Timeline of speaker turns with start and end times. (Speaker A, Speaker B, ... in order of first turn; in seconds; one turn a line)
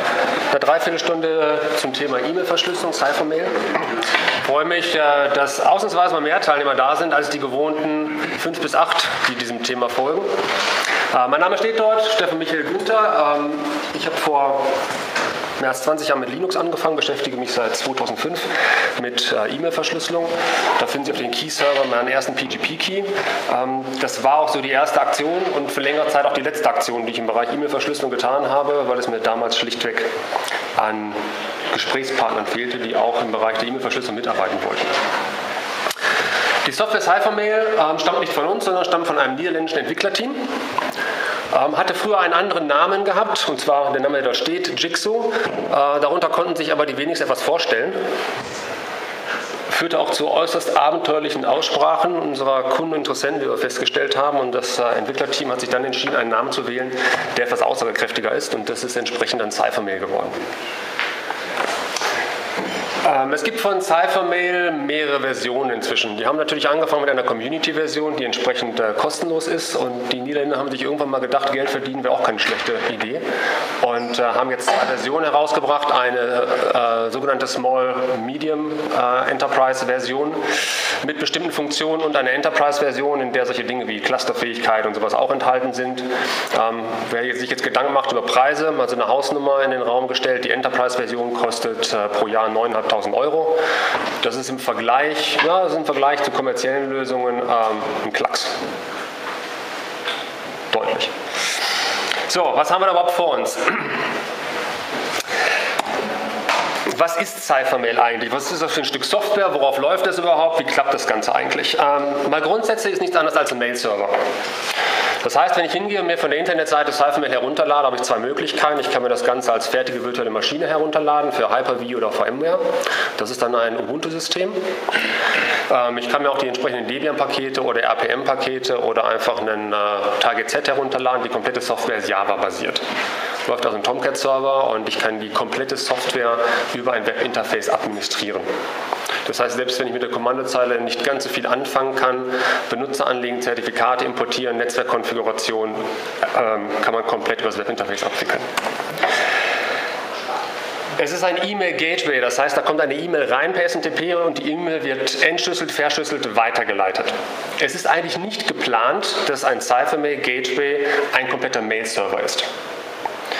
Speaker A: 0.5-10.3
Speaker A: 11.1-14.7
Speaker A: 15.6-30.1
Speaker A: 30.8-35.0
Speaker A: 36.6-40.6
Speaker A: 41.5-48.0
Speaker A: 49.7-60.4
Speaker A: 63.0-73.2
Speaker A: 73.8-80.5
Speaker A: 81.0-93.6
Speaker A: 94.2-98.5
Speaker A: 100.7-101.1
Speaker A: 102.3-104.0
Speaker A: 106.8-114.2
Speaker A: 115.2-122.6
Speaker A: 123.2-124.6
Speaker A: 125.7-132.8
Speaker A: 133.4-138.5
Speaker A: 139.2-148.5
Speaker A: 150.9-162.5